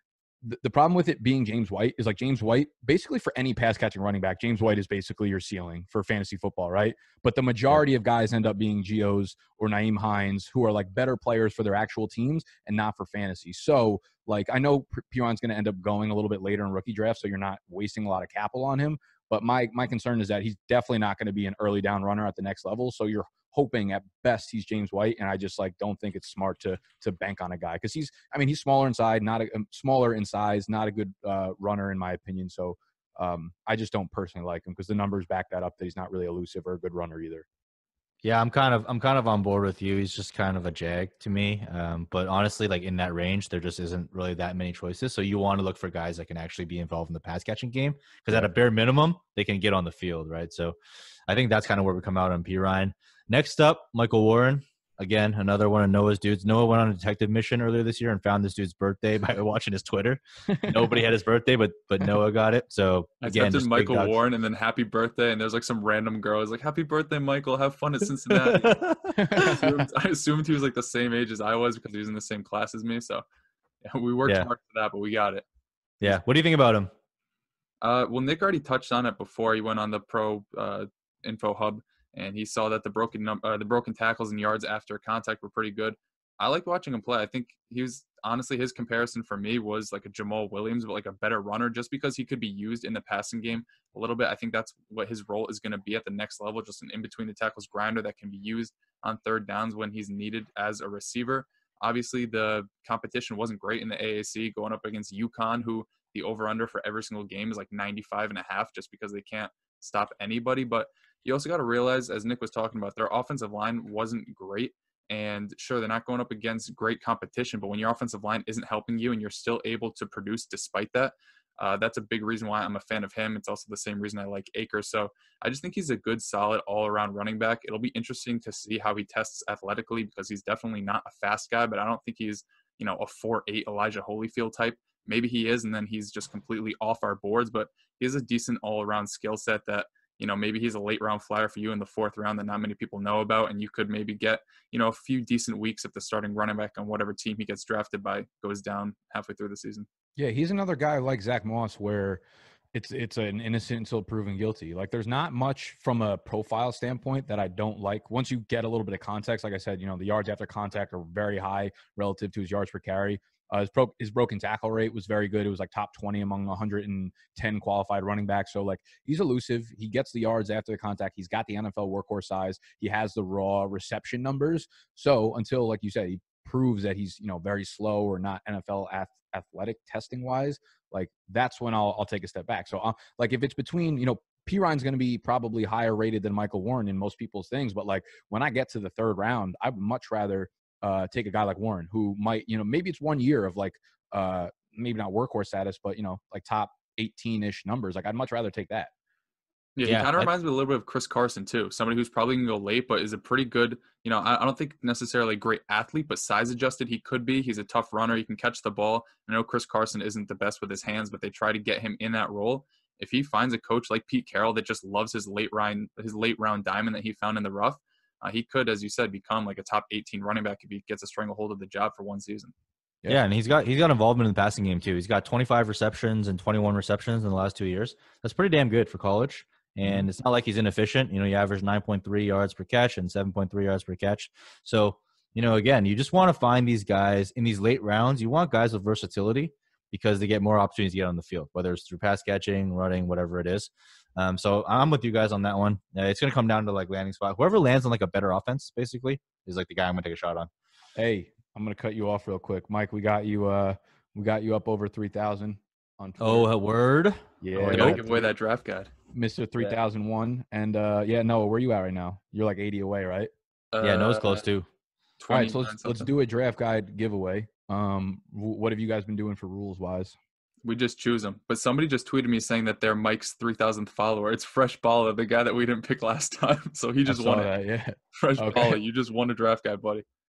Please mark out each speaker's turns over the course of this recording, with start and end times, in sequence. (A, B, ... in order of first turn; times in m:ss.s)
0:00.4-0:37.4 A
0:38.2-0:50.8 B
0:51.3-1:04.2 B
1:00.5-1:01.0 A
1:03.2-1:13.2 C
1:08.3-1:09.6 B
1:09.2-1:09.7 A
1:13.8-1:15.4 C
1:16.0-1:16.9 B
1:17.8-2:29.9 C
2:30.2-2:32.2 A
2:32.7-3:18.9 A
3:19.8-3:42.5 C
3:19.9-3:20.3 B
3:43.1-4:10.5 B
3:49.8-3:50.1 A
4:11.0-4:16.5 A
4:16.2-4:18.0 B
4:17.4-4:18.3 A
4:17.6-4:18.9 C
4:19.1-4:23.3 A
4:23.7-4:24.4 C
4:23.8-4:24.6 B
4:25.2-4:26.1 C
4:25.3-4:30.2 A
4:30.6-4:37.5 C
4:37.0-4:38.8 A
4:38.1-4:40.0 C